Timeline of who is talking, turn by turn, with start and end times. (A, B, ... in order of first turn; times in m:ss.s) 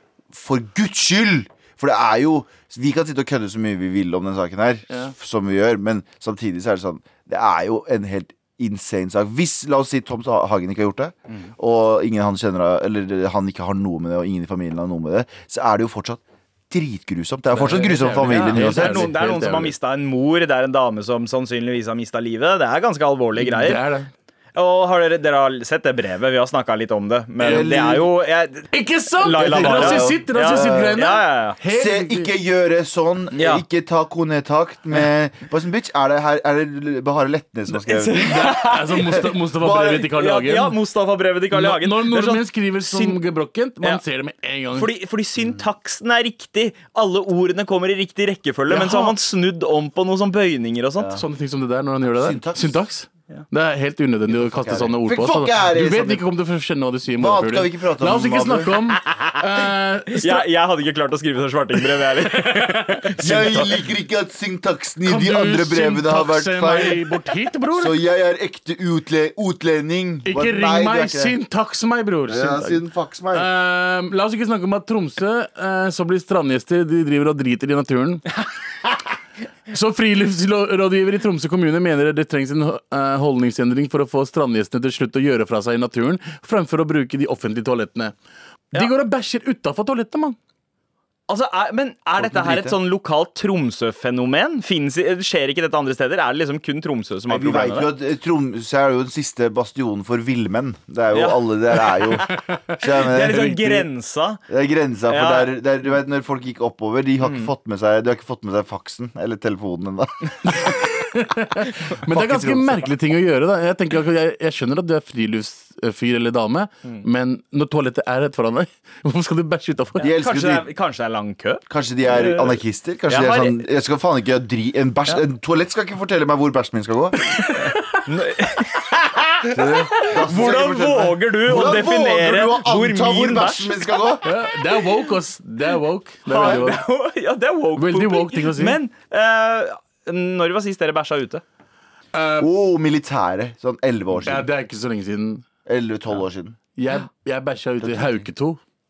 0:00.3-0:19.1 A
0:17.5-0:19.7 B
0:18.3-0:23.8 C
0:23.4-0:24.1 B
0:24.5-0:31.6 C
0:27.4-0:27.9 B
0:27.4-0:28.1 A
0:28.7-0:32.3 B
0:29.4-0:31.0 A
0:31.7-0:38.5 A
0:33.3-0:33.6 C
0:37.8-0:39.3 C
0:38.2-0:40.8 B
0:39.5-0:40.1 A
0:40.1-0:43.2 C
0:41.5-0:44.9 B
0:44.7-0:51.1 C
0:48.7-0:49.1 B
0:51.0-0:51.2 A
0:51.2-1:00.5 B
0:52.2-0:52.8 A
0:54.3-0:56.2 A
0:57.2-0:58.7 A
1:00.1-1:03.7 C
1:03.2-1:03.8 B
1:03.2-1:07.0 A
1:05.0-1:08.0 B
1:07.7-1:11.3 A
1:10.2-1:12.8 B
1:12.3-1:13.5 A
1:13.3-1:18.3 B
1:19.7-1:28.1 B
1:28.7-1:30.4 B
1:31.3-1:37.9 C
1:32.2-1:32.8 B
1:37.3-1:43.5 A
1:41.1-1:42.3 C
1:42.2-1:43.8 B
1:43.0-1:44.4 C
1:44.5-1:50.8 A
1:45.1-1:45.5 C
1:47.2-1:47.5 C
1:50.4-2:00.1 B
1:52.0-1:52.9 A
2:00.0-2:03.6 C
2:00.0-2:00.7 A
2:01.7-2:07.2 A
2:07.5-2:14.2 C
2:09.5-2:10.2 B
2:09.6-2:14.2 A
2:14.2-2:16.8 B
2:16.3-2:21.4 C
2:17.8-2:18.8 B
2:22.1-2:22.5 B
2:22.4-2:24.5 A
2:24.2-2:25.4 B
2:25.6-2:26.6 A
2:26.7-2:28.6 B
2:27.8-2:28.2 A